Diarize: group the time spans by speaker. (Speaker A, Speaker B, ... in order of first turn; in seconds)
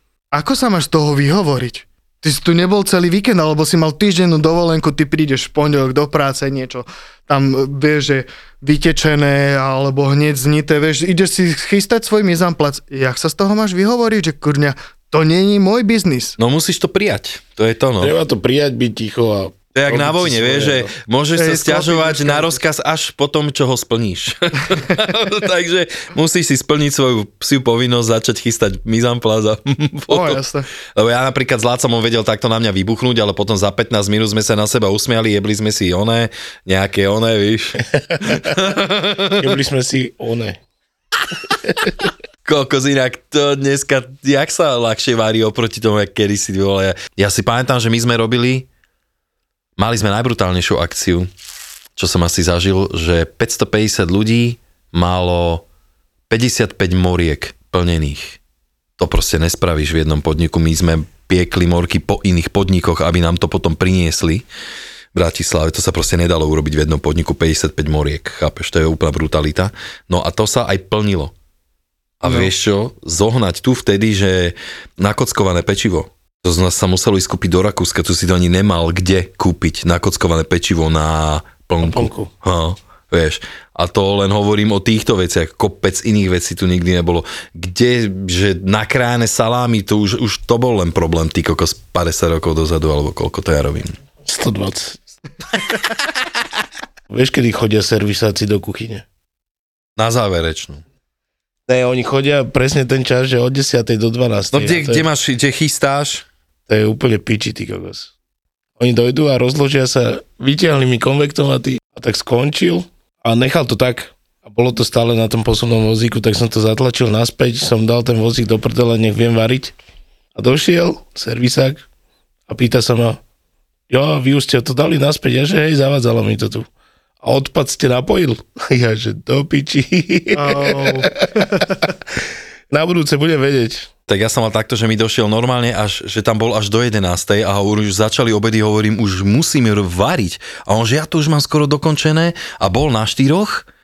Speaker A: 0.3-16.4, 21.3-22.6, 30.1-30.7, 130.3-131.7
Speaker B: 16.4-18.1, 19.7-30.4, 30.9-39.5, 41.8-48.7, 49.8-51.3, 52.0-55.6, 56.3-58.4, 59.0-64.4, 65.1-71.3, 72.2-93.9, 100.0-100.8, 104.5-106.2, 134.1-143.7
Speaker C: 18.0-20.9, 38.0-38.5, 39.4-40.6, 81.8-82.3, 94.2-95.0, 97.1-99.0, 101.7-105.0, 106.7-108.1, 108.8-119.8, 120.3-121.8, 122.5-123.2, 123.9-126.7, 127.2-132.2, 132.7-133.9